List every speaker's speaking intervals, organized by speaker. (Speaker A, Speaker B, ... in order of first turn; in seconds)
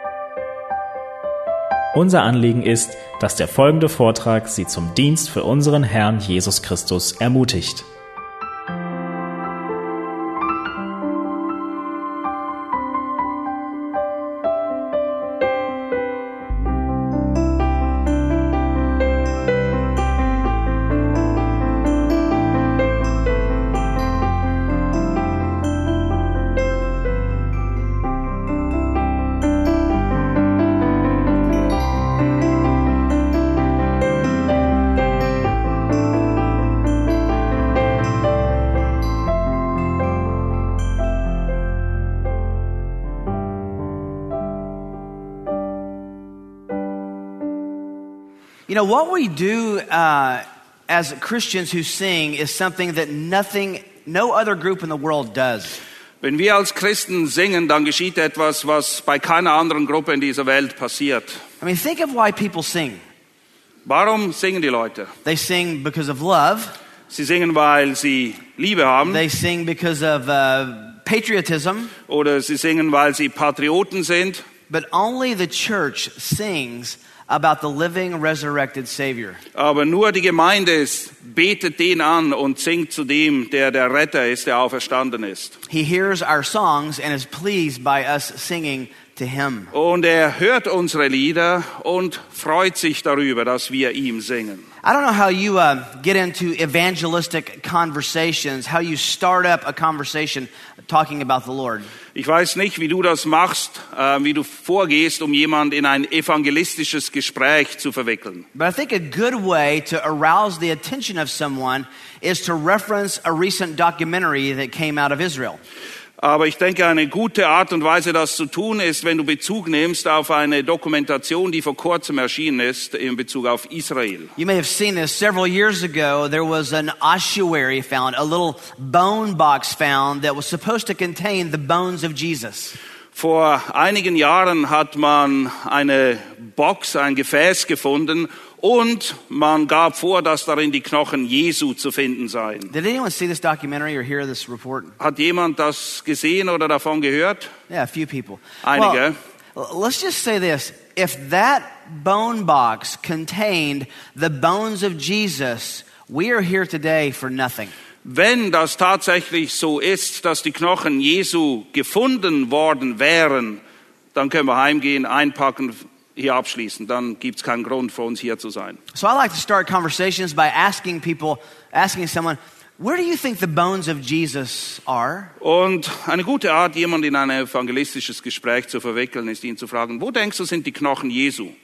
Speaker A: 1.9-7.9
Speaker B: 48.7-55.8, 61.6-63.0, 65.2-66.8, 69.0-71.9, 74.7-79.4, 85.7-89.7, 94.8-101.9, 108.5-115.6, 124.3-132.8, 142.7-145.0, 147.7-149.0, 149.5-157.7, 168.9-175.3
Speaker C: 56.2-61.4, 63.8-65.1, 67.1-69.2, 72.1-74.4, 79.5-85.6, 89.7-94.7, 102.1-108.5, 116.2-124.3, 133.1-142.7, 145.0-147.5, 148.6-149.1, 158.0-163.6, 164.1-168.8, 175.4-181.5